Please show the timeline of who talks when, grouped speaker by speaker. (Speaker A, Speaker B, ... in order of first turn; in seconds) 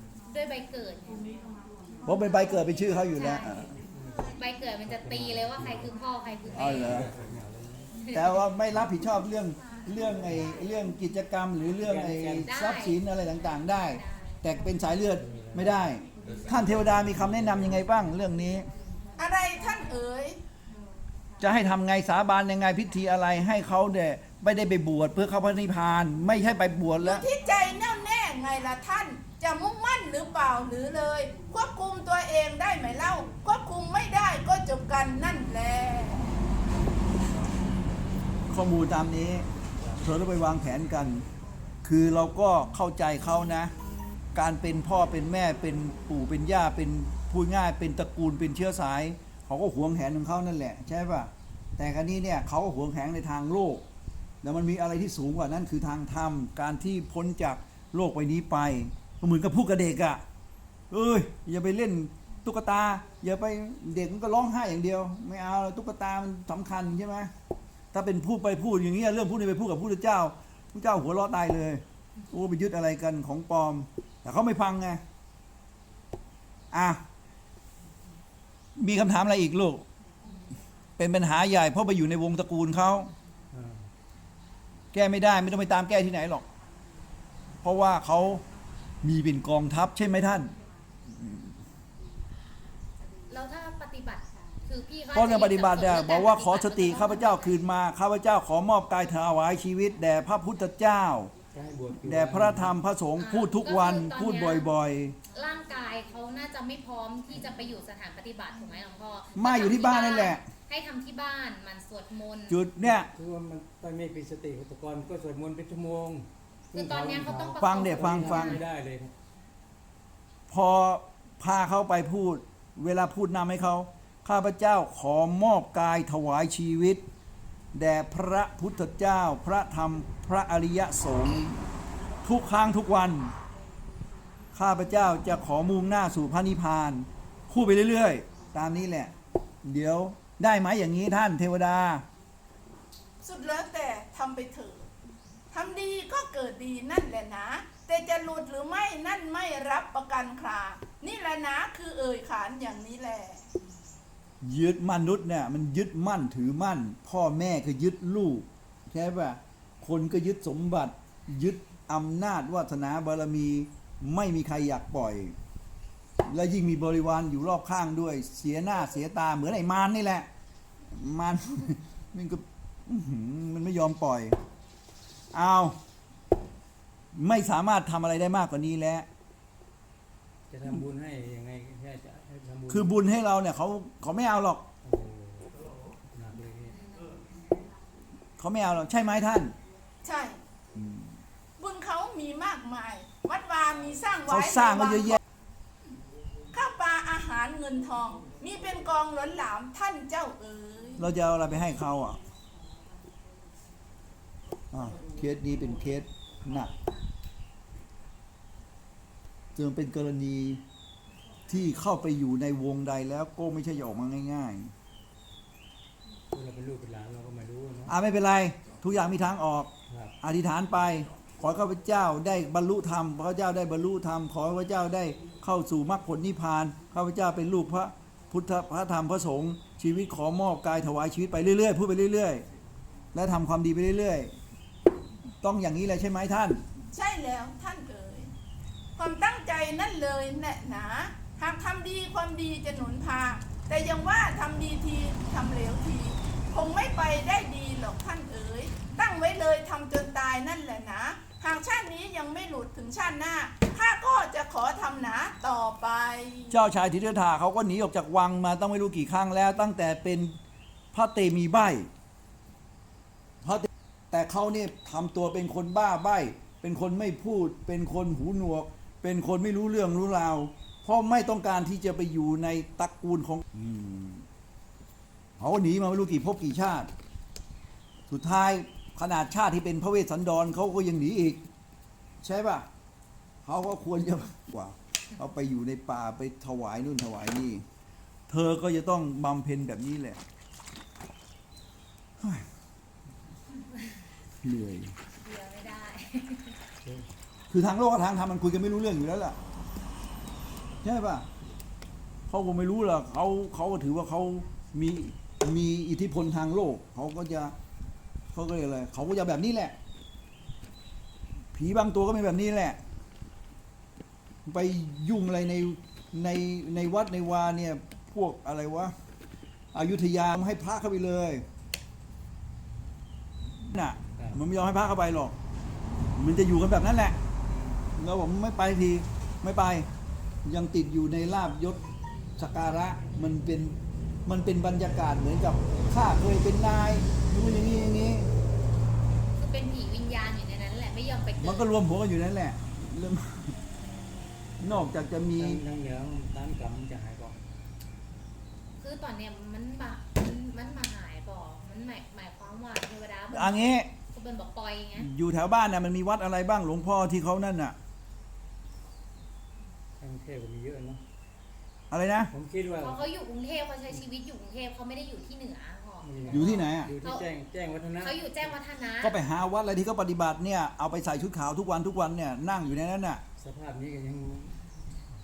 Speaker A: 0.3-1.1, 2.1-3.6, 4.3-7.1, 8.0-8.4, 12.4-13.0, 14.0-14.3, 93.3-97.6, 103.2-104.6, 105.3-112.6, 116.7-118.6, 295.2-296.6, 339.4-341.7, 348.8-355.1, 362.8-367.2, 368.0-369.1
Speaker B: 2.0-3.7, 6.5-7.1, 8.1-18.7, 21.4-27.2, 38.5-39.5, 40.0-41.2, 41.8-43.7, 44.3-53.8, 54.4-60.2, 60.9-67.3, 67.9-75.0, 76.7-77.0, 78.8-79.8, 81.0-83.1, 84.9-86.4, 87.6-88.4, 89.0-90.5, 91.1-91.5, 95.1-101.3, 102.0-105.2, 109.3-110.4, 112.5-113.1, 117.6-118.6, 120.5-127.0, 127.7-131.6, 132.2-133.3, 134.5-139.1, 139.6-142.0, 154.4-165.3, 166.3-170.3, 170.9-174.4, 175.3-175.8, 177.1-179.1, 182.7-184.7, 188.4-189.5, 190.7-191.1, 194.3-195.2, 201.0-202.2, 204.7-206.7, 209.6-210.6, 211.5-214.7, 217.9-232.4, 233.1-234.3, 235.4-236.6, 256.5-260.4, 260.9-261.9, 263.4-274.2, 275.4-276.9, 278.1-281.5, 282.2-282.6, 283.4-287.6, 288.3-290.2, 292.2-292.5, 294.4-294.9, 297.5-299.4, 300.8-301.3, 302.3-307.5, 308.3-309.7, 311.5-312.8, 314.4-318.9, 319.7-321.4, 323.6-325.3, 326.2-327.2, 328.0-329.9, 330.4-331.8, 332.4-338.3, 341.4-343.6, 344.6-345.6, 353.3-353.9, 355.0-357.8, 361.9-362.3, 366.3-366.9, 369.0-373.2
Speaker C: 3.9-4.3, 4.8-5.9, 6.5-7.9, 11.8-12.5, 15.2-15.9, 16.5-17.6, 83.5-83.9, 101.5-102.7, 112.8-119.1, 180.5-182.9, 184.8-185.5, 186.1-186.8, 216.3-217.9, 219.9-220.1, 345.3-347.4, 360.0-361.0, 362.3-363.1, 366.0-368.6, 373.4-375.0
Speaker D: 19.2-20.4, 27.0-36.4, 143.2-144.8, 145.5-153.4, 190.0-190.4, 191.6-195.2, 196.5-201.1, 236.9-238.3, 239.0-256.6